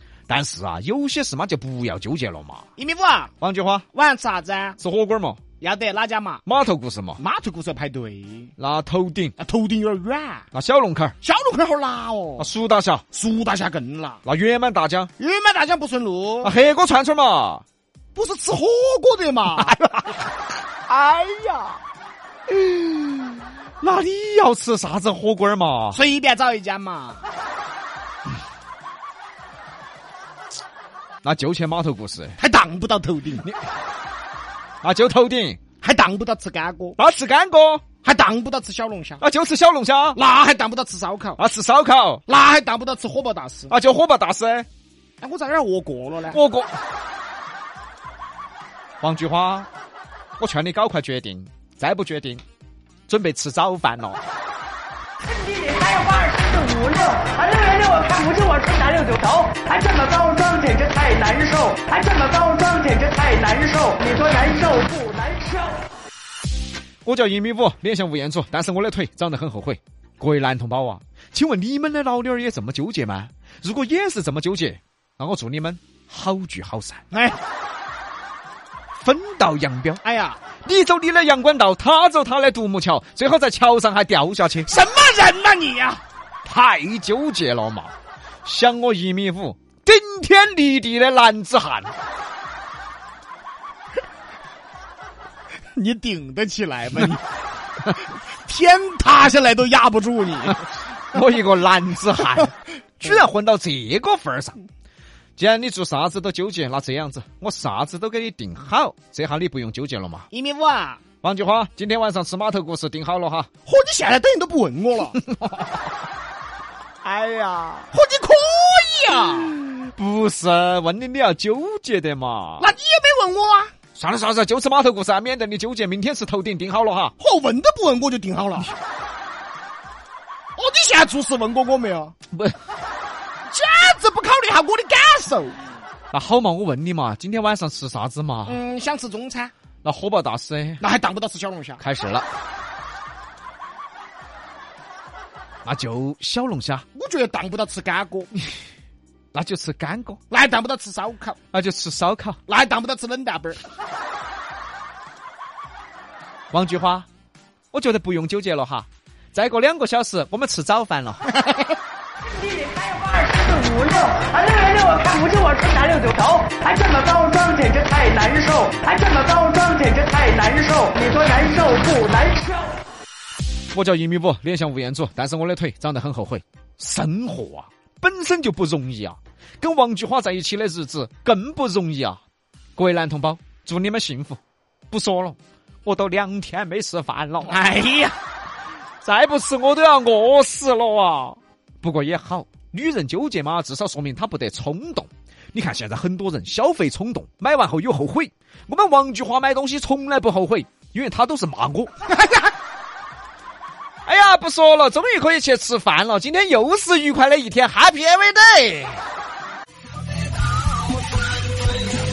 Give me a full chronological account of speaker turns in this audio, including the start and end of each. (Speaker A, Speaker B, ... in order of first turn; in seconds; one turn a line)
Speaker A: 0.3-2.6
Speaker B: 2.8-3.3
Speaker A: 3.4-3.9
Speaker B: 3.9-4.8
Speaker A: 4.8-5.4
Speaker B: 5.6-6.4
Speaker A: 6.5-7.2
Speaker B: 7.2-8.5
Speaker A: 8.6-9.3
Speaker B: 9.4-10.5
Speaker A: 10.5-11.1
Speaker B: 11.2-12.5
Speaker A: 12.4-13.0
Speaker B: 13.1-14.2
Speaker A: 14.2-15.1
Speaker B: 15.2-16.5
Speaker A: 16.4-17.6
Speaker B: 18.1-19.8
Speaker A: 19.6-20.0
Speaker A: 20.9-21.7
Speaker A: 22.5-26.0
Speaker B: 25.9-27.2
Speaker A: 31.2-32.4
Speaker B: 32.4-33.5
Speaker A: 34.8-35.6
Speaker B: 35.8-37.0
Speaker A: 37.0-37.8
Speaker B: 38.0-39.2
Speaker A: 39.2-40.2
Speaker B: 40.1-41.4
Speaker A: 41.4-42.2
Speaker B: 42.3-43.8
Speaker A: 43.7-44.7
Speaker B: 45.2-46.4
Speaker A: 46.3-46.7
Speaker A: 49.0-49.7
Speaker A: 50.4-52.4
Speaker A: 53.1-54.2
Speaker C: 55.3-65.7
Speaker A: 67.0-77.0
Speaker B: 77.1-77.4
Speaker A: 79.0-80.0
Speaker B: 80.0-80.4
Speaker A: 80.6-84.7
Speaker B: 84.7-86.0
Speaker A: 86.5-87.9
Speaker A: 88.5-91.9
Speaker B: 95.8-97.2
Speaker B: 97.9-100.7
Speaker A: 101.1-104.6
Speaker A: 105.4-110.3
Speaker B: 110.3-111.0
Speaker A: 111.2-113.5
Speaker B: 113.7-115.2
Speaker A: 115.3-115.6
Speaker B: 117.0-119.6
Speaker A: 119.6-122.7
Speaker B: 122.6-123.7
Speaker A: 124.0-127.1
Speaker B: 127.2-128.7
Speaker B: 130.6-132.1
Speaker B: 133.5-135.6
Speaker A: 136.1-138.6
Speaker B: 138.5-139.5
Speaker A: 139.8-140.8
Speaker B: 140.8-141.8
Speaker A: 141.8-142.3
Speaker A: 145.7-146.8
Speaker B: 146.9-148.3
Speaker A: 149.3-150.2
Speaker B: 150.3-151.4
Speaker A: 151.5-152.4
Speaker B: 152.5-153.6
Speaker A: 156.5-157.1
Speaker A: 157.7-161.2
Speaker C: 162.4-168.4
Speaker B: 168.7-169.2
Speaker C: 169.0-172.6
Speaker B: 170.4-171.0
Speaker A: 173.7-182.2
Speaker A: 182.8-184.4
Speaker A: 184.9-187.6
Speaker B: 187.5-188.2
Speaker A: 189.0-201.9
Speaker A: 204.1-209.0